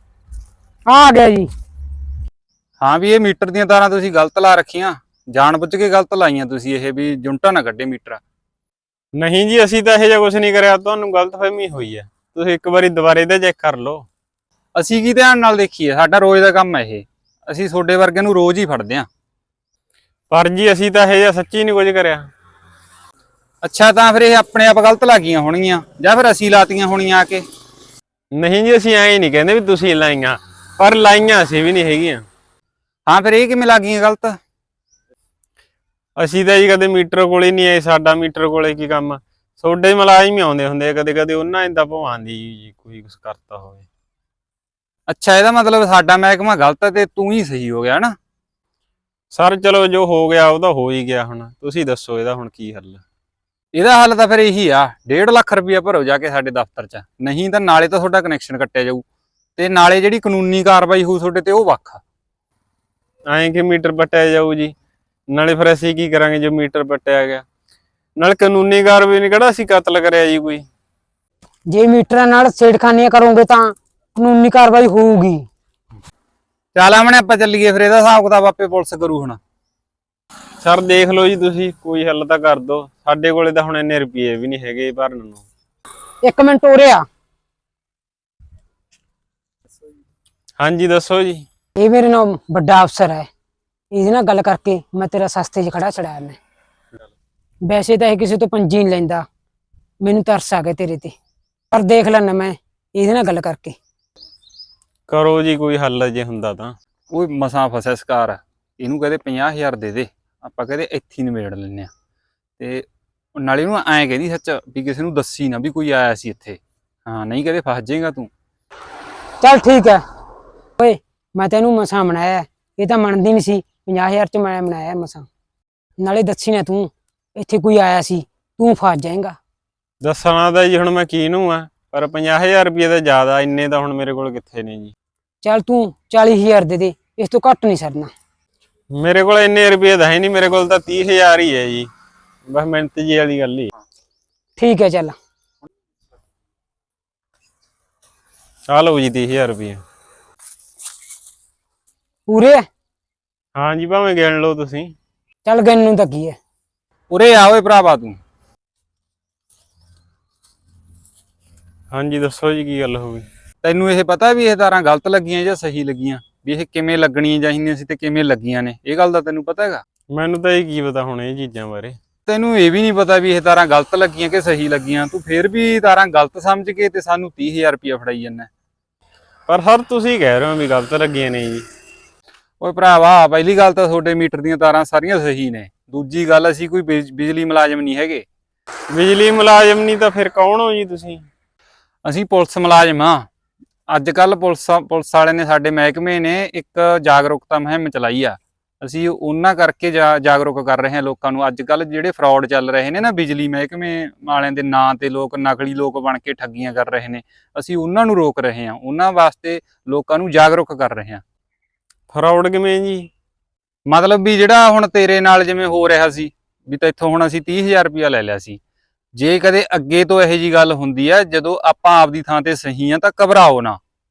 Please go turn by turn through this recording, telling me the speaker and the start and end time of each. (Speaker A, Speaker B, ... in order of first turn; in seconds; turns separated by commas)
Speaker A: 0.9-1.5, Speaker B: 2.8-8.2, Speaker C: 9.2-14.1, Speaker B: 14.7-19.1, Speaker C: 20.3-22.3, Speaker B: 23.6-27.4, Speaker C: 28.4-32.2, Speaker B: 33.1-34.4, Speaker C: 36.2-43.9, Speaker B: 45.1-48.1, Speaker C: 49.3-53.0, Speaker B: 53.7-59.0, Speaker B: 59.5-62.0, Speaker C: 63.3-64.7, Speaker C: 65.3-67.4, Speaker C: 68.2-70.7, Speaker A: 71.7-75.5, Speaker B: 76.7-79.4, Speaker C: 80.6-85.4, Speaker A: 86.2-87.0, Speaker C: 90.6-91.5, Speaker A: 91.8-93.3, Speaker A: 93.9-96.4, Speaker A: 97.7-99.2, Speaker A: 100.0-101.1, Speaker A: 101.7-103.8, Speaker C: 105.1-106.7, Speaker B: 107.1-111.9, Speaker B: 112.6-118.3, Speaker A: 119.4-120.0, Speaker A: 120.8-125.3, Speaker A: 126.0-129.4, Speaker C: 130.0-134.9, Speaker A: 135.4-138.1, Speaker C: 138.9-141.9, Speaker C: 142.5-143.7, Speaker A: 144.6-145.1, Speaker C: 148.7-149.8, Speaker A: 152.3-152.6, Speaker C: 153.6-154.9, Speaker A: 155.4-156.3, Speaker B: 157.1-158.2, Speaker C: 161.9-163.2, Speaker B: 163.6-169.8, Speaker C: 170.1-172.0, Speaker B: 172.3-178.5, Speaker C: 179.5-181.6, Speaker B: 182.6-188.2, Speaker C: 188.9-191.2, Speaker B: 192.0-193.2, Speaker B: 193.9-211.2, Speaker C: 212.1-213.1, Speaker B: 213.9-218.6, Speaker B: 219.1-223.8